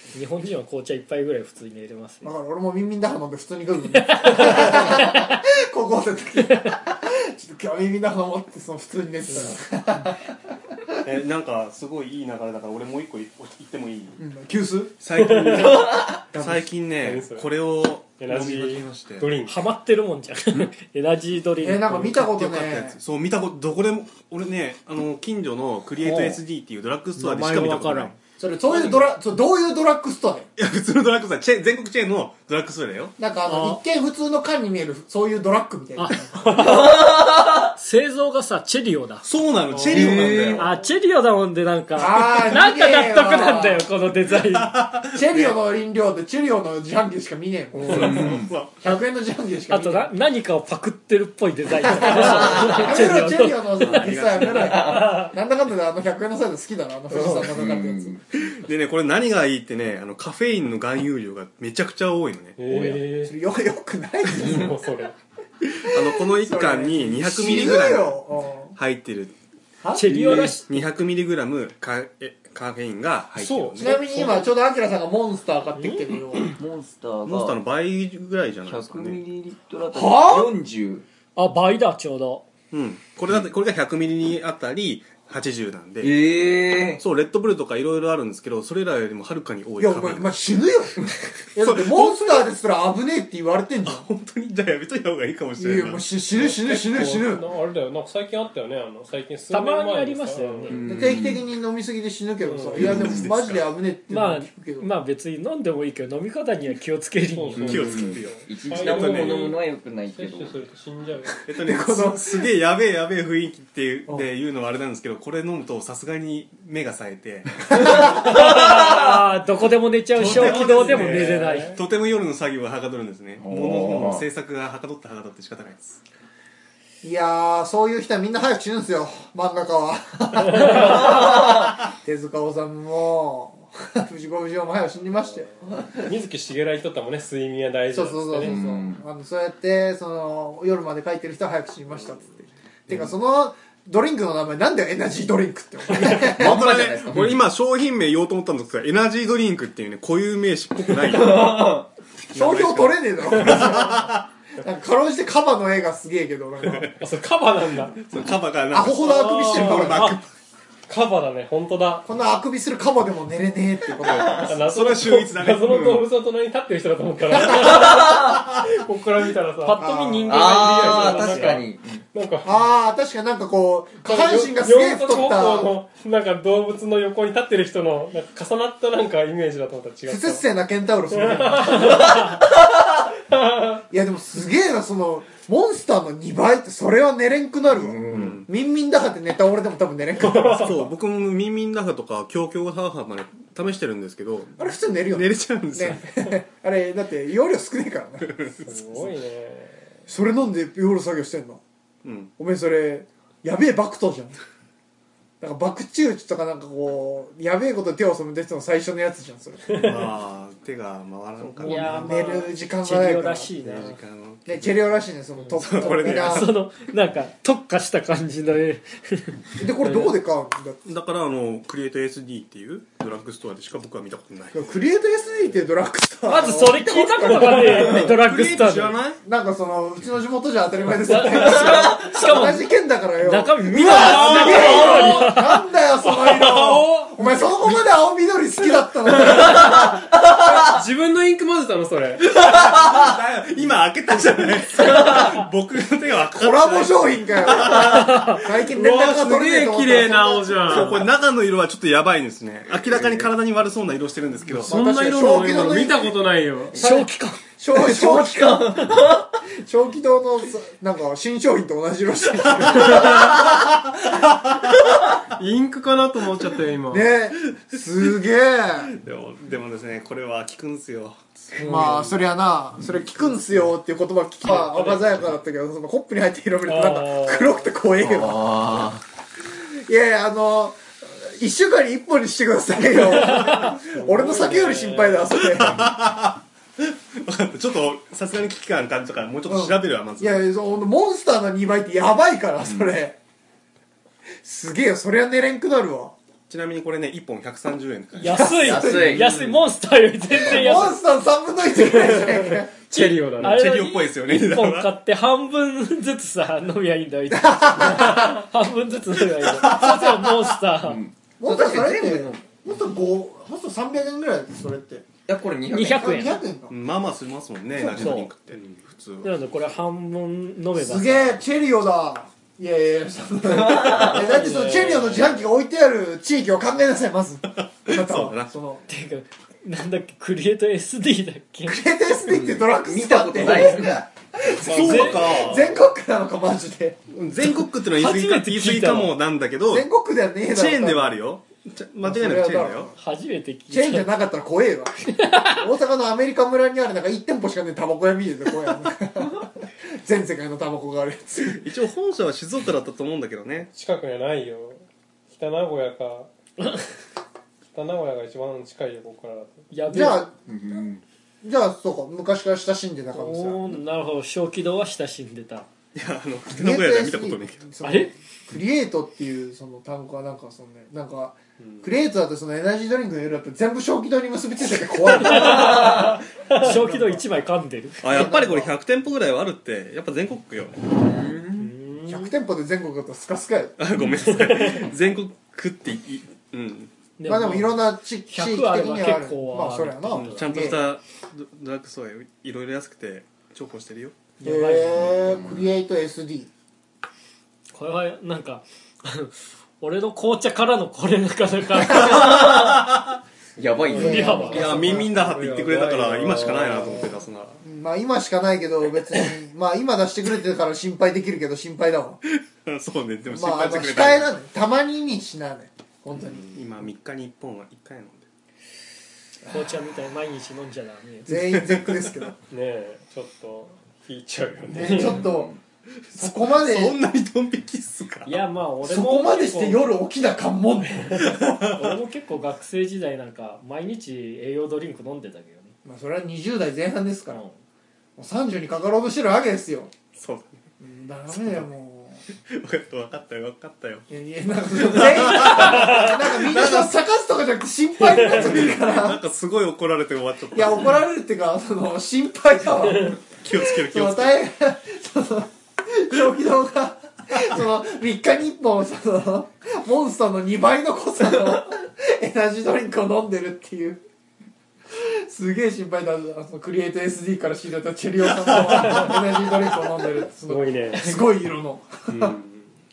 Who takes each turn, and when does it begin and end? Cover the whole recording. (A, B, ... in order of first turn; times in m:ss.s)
0:00.1-0:02.3 A
0:02.2-0:10.3 B
0:03.9-0:05.4 A
0:11.0-0:14.2 C
0:14.2-0:15.0 B
0:15.0-0:19.4 C
0:15.2-0:15.8 D
0:15.5-0:16.1 E
0:16.3-0:16.7 B
0:17.0-0:17.5 D
0:18.2-0:19.6 D
0:19.4-0:22.3 A
0:21.6-0:23.0 B
0:22.2-0:28.1 C
0:26.0-0:26.4 A
0:27.2-0:28.2 A
0:28.4-0:30.5 B
0:28.7-0:29.0 D
0:30.6-0:33.2 C
0:33.2-0:36.6 B
0:33.5-0:33.8 A
0:36.0-0:37.1 A
0:36.5-0:37.7 E
0:37.7-0:39.2 A
0:39.2-0:40.7 C
0:39.7-0:40.3 D
0:39.9-0:40.7 E
0:40.6-0:44.8 A
0:42.0-0:43.8 B
0:44.3-0:45.6 C
0:45.1-0:50.1 B
0:47.9-0:48.5 E
0:47.9-0:48.9 C
0:49.7-0:55.3 A
0:51.8-0:58.2 B
0:52.1-0:52.9 E
0:52.4-0:53.3 C
0:53.8-0:55.3 E
0:54.0-0:55.0 C
0:57.2-0:58.2 E
0:58.4-1:03.0 C
1:02.6-1:03.3 D
1:03.2-1:04.8 B
1:04.4-1:05.2 D
1:05.8-1:08.8 B
1:05.9-1:08.2 C
1:08.8-1:09.3 C
1:09.8-1:10.5 B
1:09.9-1:10.7 A
1:10.1-1:14.0 C
1:13.4-1:14.5 D
1:13.8-1:16.5 B
1:15.8-1:16.0 A
1:16.5-1:17.6 E
1:17.3-1:19.2 C
1:18.6-1:21.1 E
1:19.9-1:20.5 B
1:21.4-1:22.5 A
1:22.7-1:26.2 C
1:26.0-1:27.0 E
1:27.0-1:30.4 C
1:29.8-1:34.1 B
1:31.6-1:32.5 C
1:33.8-1:36.1 C
1:35.6-1:37.4 B
1:36.4-1:40.8 D
1:39.5-1:40.9 A
1:40.7-1:41.4 E
1:40.9-1:44.9 B
1:42.4-1:42.9 D
1:42.8-1:43.7 C
1:42.8-1:43.3 E
1:44.1-1:47.9 A
1:47.4-1:51.4 D
1:47.6-1:50.6 E
1:47.6-1:49.6 C
1:51.5-1:58.4 C
1:51.6-1:52.5 B
1:57.8-2:01.8 A
2:00.2-2:06.0 C
2:00.2-2:01.8 D
2:00.8-2:01.1 B
2:03.4-2:04.3 E
2:07.0-2:16.0 B
2:10.5-2:11.0 D
2:15.9-2:18.6 D
2:17.9-2:26.6 B
2:18.4-2:19.1 E
2:26.0-2:27.4 E
2:26.3-2:31.8 C
2:31.1-2:31.9 E
2:32.3-2:34.3 C
2:32.3-2:34.1 B
2:33.5-2:33.8 D
2:34.6-2:36.9 B
2:36.6-2:37.0 C
2:37.0-2:38.0 D
2:37.9-2:40.2 C
2:38.7-2:40.2 B
2:39.0-2:40.2 D
2:40.9-2:42.1 D
2:42.0-2:44.5 B
2:44.1-2:46.0 C
2:44.3-2:49.8 D
2:47.5-2:48.4 E
2:49.6-2:51.6 A
2:49.8-2:50.4 B
2:50.3-2:52.0 E
2:50.4-2:52.5 D
2:52.4-2:55.7 B
2:54.0-3:00.4 D
3:00.1-3:02.3 B
3:01.1-3:02.4 D
3:03.3-3:03.8 D
3:03.9-3:10.9 B
3:07.7-3:08.4 E
3:08.1-3:08.5 C
3:10.2-3:10.7 D
3:10.2-3:16.3 C
3:14.6-3:18.4 B
3:18.2-3:19.1 C
3:18.6-3:19.9 D
3:20.1-3:21.6 B
3:22.0-3:22.3 C
3:22.4-3:24.4 B
3:25.4-3:30.0 B
3:29.7-3:32.2 C
3:31.4-3:33.6 B
3:31.6-3:34.0 A
3:33.6-3:36.6 C
3:34.5-3:36.5 B
3:35.8-3:40.1 A
3:39.6-3:40.8 B
3:40.8-3:44.8 C
3:44.5-3:48.1 B
3:46.3-3:49.0 A
3:47.7-3:49.2 C
3:49.2-3:59.9 B
3:51.1-3:55.6 A
3:53.6-3:55.0 C
3:53.9-3:55.3 D
3:56.0-3:57.2 D
3:57.4-3:57.8 C
3:59.3-3:59.7 D
3:59.5-3:59.9 E
4:00.5-4:02.2 D
4:02.3-4:08.4 C
4:02.3-4:03.1 E
4:04.8-4:05.3 E
4:06.4-4:11.0 B
4:07.9-4:08.4 A
4:08.7-4:11.0 D
4:10.7-4:15.6 C
4:14.5-4:16.8 D
4:14.6-4:16.1 B
4:16.7-4:17.4 A
4:16.8-4:23.4 B
4:17.7-4:19.3 E
4:22.7-4:25.0 C
4:25.4-4:27.1 D
4:26.9-4:28.9 B
4:28.8-4:32.1 C
4:31.6-4:38.9 B
4:31.6-4:32.1 A
4:34.4-4:35.2 D
4:36.7-4:37.7 D
4:38.0-4:39.0 E
4:39.9-4:45.9 B
4:43.3-4:43.7 A
4:43.7-4:45.4 D
4:45.4-4:50.4 C
4:49.5-4:53.2 B
4:52.6-4:52.9 E
4:54.4-4:56.1 B
4:56.5-4:58.6 C
4:58.2-5:01.0 A
4:58.4-4:59.3 B
4:58.4-4:59.5 E
5:00.3-5:02.7 B
5:02.9-5:03.6 D
5:02.9-5:11.0 A
5:03.4-5:04.9 C
5:07.3-5:08.4 B
5:09.4-5:10.5 C
5:10.8-5:12.4 E
5:11.4-5:15.0 B
5:15.3-5:16.3 E
5:15.7-5:16.4 A
5:15.8-5:16.7 B
5:16.7-5:19.4 C
5:17.8-5:18.2 B
5:17.9-5:18.3 A
5:19.2-5:21.4 A
5:20.8-5:28.9 B
5:23.4-5:24.3 E
5:24.0-5:25.5 D
5:27.6-5:28.5 C
5:28.9-5:31.8 A
5:31.7-5:37.0 B
5:32.3-5:34.0 E
5:34.6-5:35.8 C
5:34.7-5:35.7 A
5:34.9-5:35.2 D
5:37.1-5:39.9 C
5:37.9-5:39.1 A
5:39.7-5:41.2 B
5:40.5-5:42.9 C
5:42.0-5:43.0 B
5:43.0-5:44.1 A
5:43.7-5:51.6 B
5:45.1-5:45.7 A
5:51.5-5:53.7 C
5:53.7-5:56.3 D
5:57.7-5:59.7 D
5:59.7-6:00.3 A
5:59.9-6:00.3 B
6:00.5-6:01.0 E
6:01.4-6:03.8 B
6:03.1-6:05.7 A
6:06.0-6:07.8 C
6:06.5-6:16.1 B
6:07.8-6:08.1 A
6:15.2-6:18.3 A
6:15.3-6:17.0 D
6:15.8-6:16.1 E
6:16.6-6:17.2 B
6:18.0-6:20.9 C
6:18.1-6:18.7 B
6:21.0-6:21.7 E
6:21.6-6:22.3 A
6:22.0-6:23.8 B
6:23.8-6:26.9 C
6:24.5-6:24.9 D
6:27.2-6:30.8 A
6:27.3-6:30.8 B
6:30.1-6:34.2 C
6:34.4-6:35.2 A
6:34.4-6:36.5 B
6:35.0-6:35.7 E
6:37.7-6:42.5 A
6:41.9-6:42.9 E
6:42.1-6:43.2 C
6:43.6-6:45.1 E
6:43.6-6:47.2 D
6:43.9-6:45.0 A
6:44.0-6:45.1 B
6:44.5-6:47.6 C
6:47.6-6:52.2 B
6:52.3-6:54.4 C
6:53.3-6:56.5 B
6:56.2-6:58.3 C
6:59.5-7:01.3 A
7:01.3-7:02.4 B
7:01.3-7:02.3 C
7:02.5-7:05.3 D
7:04.7-7:05.5 B
7:04.8-7:05.6 E
7:06.1-7:08.5 C
7:06.1-7:07.0 B
7:08.2-7:09.8 A
7:08.8-7:11.4 B
7:11.1-7:12.0 C
7:11.7-7:15.8 A
7:15.8-7:17.4 B
7:17.3-7:17.6 A
7:18.2-7:19.9 B
7:20.2-7:20.6 C
7:20.8-7:22.2 B
7:21.3-7:21.6 C
7:22.3-7:24.1 C
7:24.1-7:29.2 B
7:24.8-7:27.0 C
7:28.0-7:31.0 C
7:30.5-7:44.0 B
7:33.4-7:34.4 C
7:44.9-7:52.4 B
7:48.4-7:49.2 D
7:50.5-7:51.2 D
7:52.1-7:52.8 D